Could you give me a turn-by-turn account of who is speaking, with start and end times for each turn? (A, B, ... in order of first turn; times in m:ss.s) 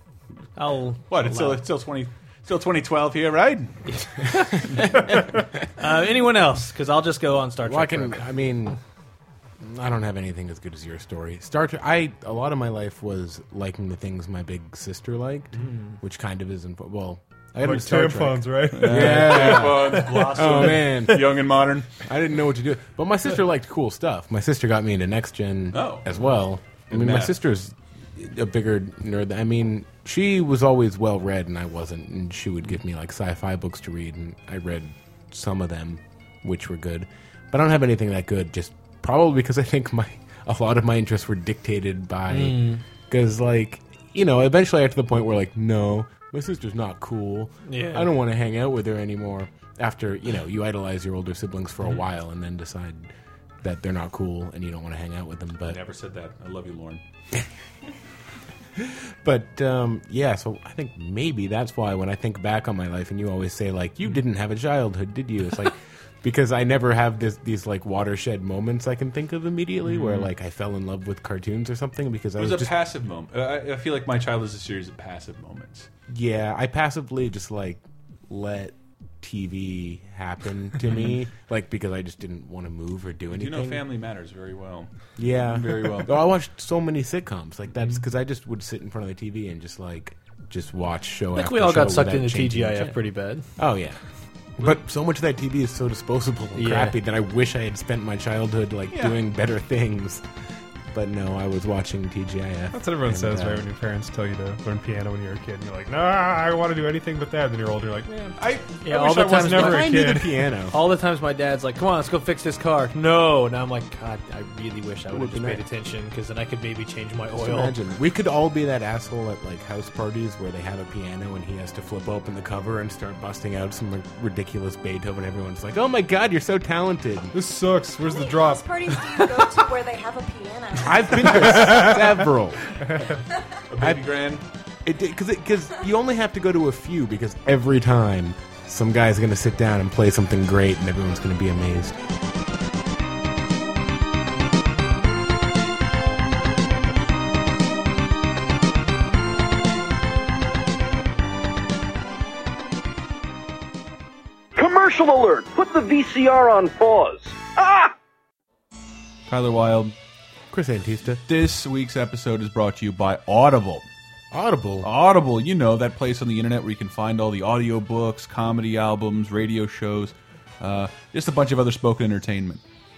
0:00.6-0:01.6 A
0:01.1-0:03.9 B
0:03.9-0:08.2 A
0:07.6-0:08.8 C
0:09.6-0:21.4 C
0:17.6-0:19.6 D
0:18.7-0:22.0 B
0:20.3-0:20.8 A
0:22.0-0:53.1 C
0:25.7-0:26.1 B
0:26.9-0:27.4 B
0:42.3-0:42.8 A
0:47.7-0:48.1 A
0:53.6-0:55.8 C
0:55.7-0:57.0 B
0:58.8-1:12.7 C
1:09.8-1:10.3 B
1:12.4-1:15.9 B
1:16.1-1:23.8 C
1:20.9-1:21.2 B
1:23.3-1:26.3 B
1:25.2-1:33.0 C
1:31.4-1:33.5 A
1:33.6-1:34.0 C
1:34.6-1:40.2 C
1:36.6-1:37.0 A
1:38.9-1:39.2 B
1:40.9-1:43.7 C
1:42.7-1:50.4 D
1:48.4-1:48.8 B
1:48.8-1:50.1 A
1:49.5-1:50.8 C
1:50.7-1:57.8 A
1:55.1-1:55.6 C
1:57.4-2:07.4 C
2:07.3-2:09.1 D
2:08.0-2:11.4 E
2:10.8-2:12.7 C
2:13.7-2:14.4 B
2:14.8-2:22.0 C
2:34.6-2:37.9 F
2:39.3-2:40.0 B
2:40.5-2:41.2 C
2:41.2-2:43.9 B
2:44.3-2:44.9 C
2:44.8-2:52.6 B